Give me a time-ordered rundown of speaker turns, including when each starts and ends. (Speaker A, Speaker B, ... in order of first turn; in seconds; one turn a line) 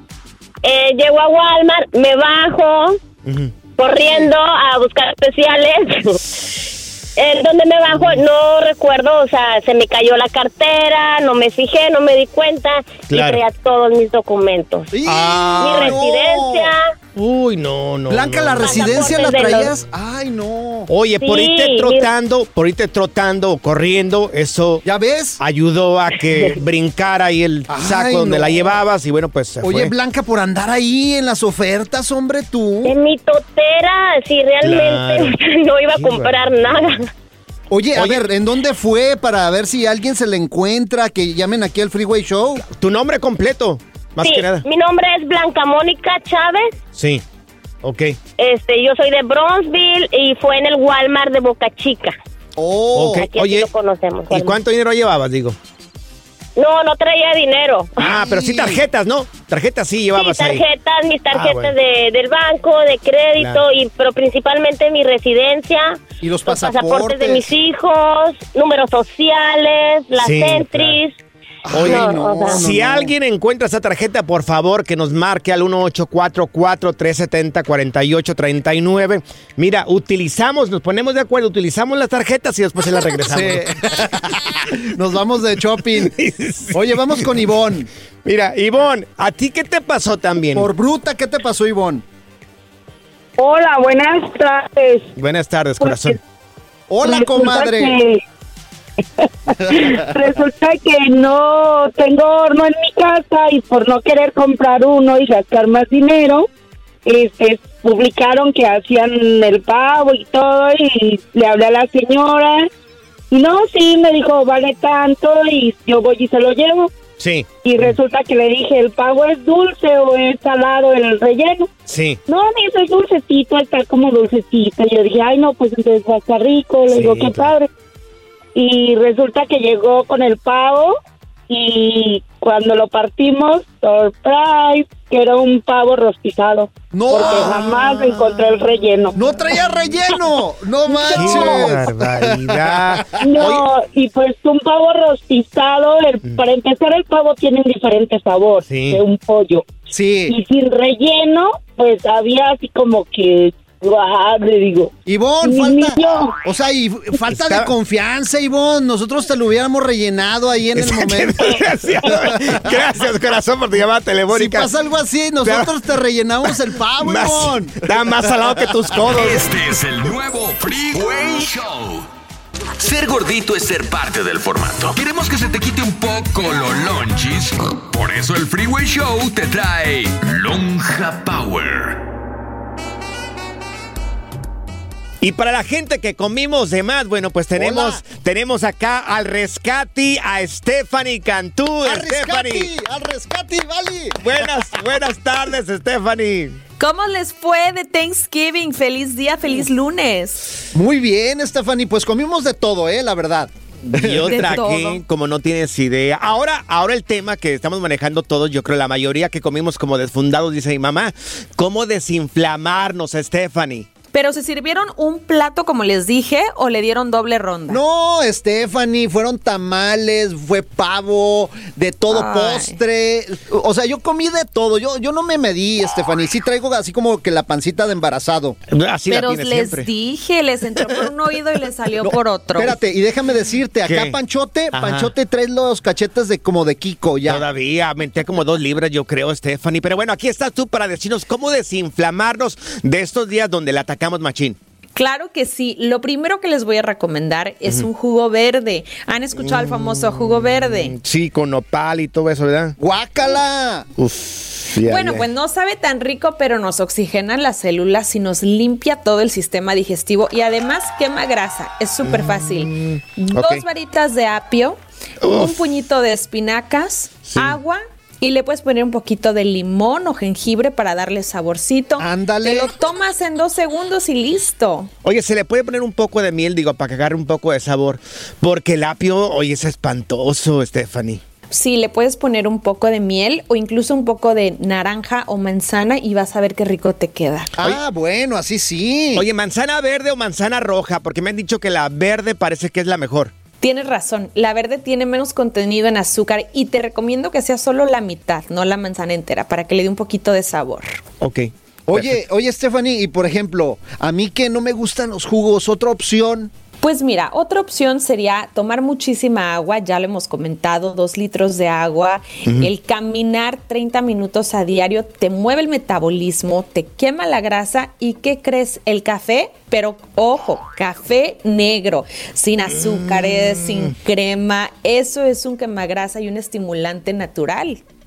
Speaker A: 0.6-3.0
Speaker B: 3.2-3.6
Speaker A: 3.8-6.2
Speaker A: 7.2-14.9
Speaker B: 7.9-8.2
Speaker B: 13.1-13.4
Speaker C: 14.9-16.7
Speaker B: 15.1-16.0
Speaker A: 15.6-16.9
Speaker B: 17.1-19.7
Speaker C: 18.1-20.9
Speaker A: 18.6-19.7
Speaker B: 20.9-24.8
Speaker A: 21.2-22.1
Speaker C: 24.8-25.4
Speaker B: 25.4-29.9
Speaker C: 27.7-28.8
Speaker C: 29.6-32.9
Speaker A: 32.8-37.1
Speaker B: 34.6-35.4
Speaker B: 35.9-37.1
Speaker C: 37.7-42.6
Speaker B: 37.9-38.3
Speaker B: 42.6-44.7
Speaker A: 44.2-46.7
Speaker B: 46.9-47.2
Speaker B: 47.8-48.2
Speaker A: 48.4-52.1
Speaker C: 52.6-53.3
Speaker B: 52.9-53.7
Speaker A: 53.1-54.5
Speaker B: 54.3-55.6
Speaker A: 56.6-58.1
Speaker B: 58.0-60.6
Speaker C: 58.0-58.8
Speaker A: 60.2-71.2
Speaker B: 61.3-61.7
Speaker B: 63.4-63.6
Speaker C: 66.2-67.5
Speaker B: 70.2-71.0
Speaker C: 71.7-73.1
Speaker B: 71.7-83.7
Speaker A: 71.8-72.6
Speaker C: 83.3-86.2
Speaker B: 86.0-87.4
Speaker C: 86.7-87.9
Speaker B: 88.2-90.7
Speaker C: 90.5-92.0
Speaker D: 93.4-95.1
Speaker B: 95.2-96.2
Speaker D: 95.8-96.2
Speaker C: 96.9-98.0
Speaker D: 97.0-98.2
Speaker D: 99.2-106.5
Speaker D: 107.0-112.7
Speaker D: 113.3-116.9
Speaker B: 117.2-118.0
Speaker D: 117.6-121.7
Speaker B: 121.9-122.2
Speaker D: 122.3-127.7
Speaker B: 126.9-127.5
Speaker D: 128.6-131.0
Speaker D: 131.5-139.2
Speaker C: 136.9-138.6
Speaker C: 139.2-143.3
Speaker D: 140.9-141.7
Speaker B: 141.1-143.7
Speaker D: 143.2-156.4
Speaker B: 148.7-149.0
Speaker C: 149.9-150.4
Speaker C: 155.1-162.7
Speaker B: 157.3-157.7
Speaker B: 160.7-164.7
Speaker C: 164.3-168.6
Speaker B: 165.4-165.8
Speaker B: 166.4-169.6
Speaker E: 169.1-172.1
Speaker E: 172.8-182.0
Speaker B: 185.2-192.7
Speaker C: 187.6-188.0
Speaker C: 191.8-194.3
Speaker B: 194.2-196.6
Speaker F: 196.8-200.5
Speaker C: 200.7-204.6
Speaker B: 203.9-213.9
Speaker F: 204.3-205.0
Speaker F: 214.1-217.8
Speaker C: 217.7-228.6
Speaker F: 222.1-222.8
Speaker B: 228.7-229.9
Speaker F: 229.1-232.8
Speaker C: 232.0-237.4
Speaker B: 233.9-234.2
Speaker B: 234.7-235.1
Speaker B: 237.2-244.6
Speaker F: 245.0-251.0
Speaker B: 249.3-252.8
Speaker C: 252.8-253.9
Speaker B: 254.0-255.3
Speaker F: 254.8-274.9
Speaker B: 262.0-263.6
Speaker B: 265.2-265.6
Speaker B: 267.3-267.6
Speaker C: 272.0-272.7
Speaker B: 275.0-281.2
Speaker F: 281.5-287.6
Speaker C: 287.6-289.3
Speaker B: 289.1-293.3
Speaker F: 293.6-301.0
Speaker B: 301.2-302.2
Speaker C: 301.9-306.5
Speaker F: 306.8-327.8
Speaker B: 312.4-312.7
Speaker B: 322.7-324.0